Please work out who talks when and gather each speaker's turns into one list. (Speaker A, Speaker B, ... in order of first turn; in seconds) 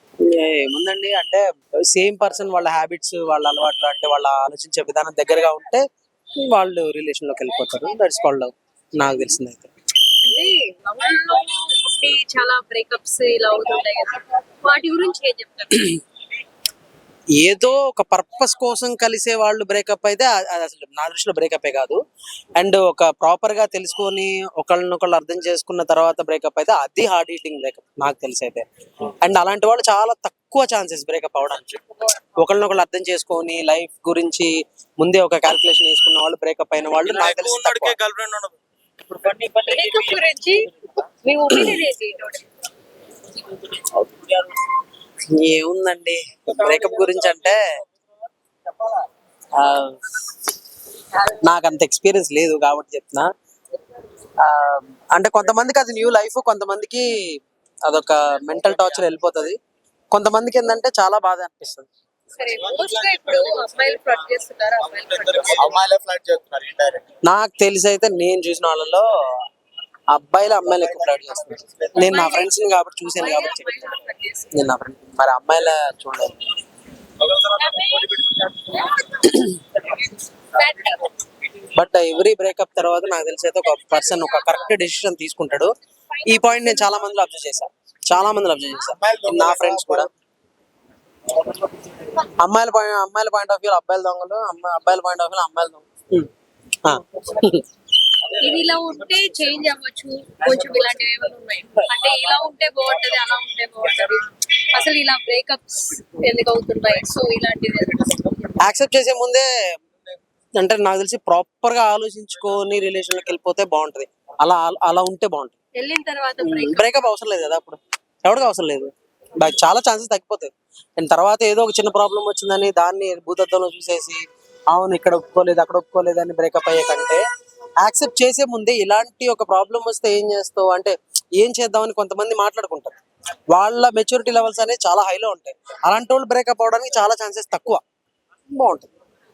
Speaker A: 0.2-5.8, 6.4-9.7, 17.4-22.0, 22.6-28.6, 29.2-31.8, 32.4-38.0, 41.5-41.8, 43.7-44.3, 45.3-47.6, 49.6-50.0, 51.4-53.3, 54.4-57.0, 57.9-59.5, 60.1-61.9, 67.2-69.0, 70.1-73.8, 74.5-76.3, 79.1-79.7, 81.7-85.7, 86.3-90.1, 92.4-96.3, 96.8-97.6, 108.6-109.5, 110.6-115.5, 116.4-118.9, 119.4-124.2, 124.7-127.2, 127.8-132.9, 133.5-137.8, 138.5-138.9
Speaker B: 10.2-15.9, 39.7-40.7, 41.2-42.5, 62.4-65.8, 72.0-72.5, 73.1-74.5, 77.4-79.0, 80.5-81.1, 83.6-84.8, 86.1-87.0, 98.4-108.3, 115.8-117.0
Speaker C: 37.0-38.5, 39.1-39.8, 46.8-47.4, 65.4-67.0, 89.0-90.0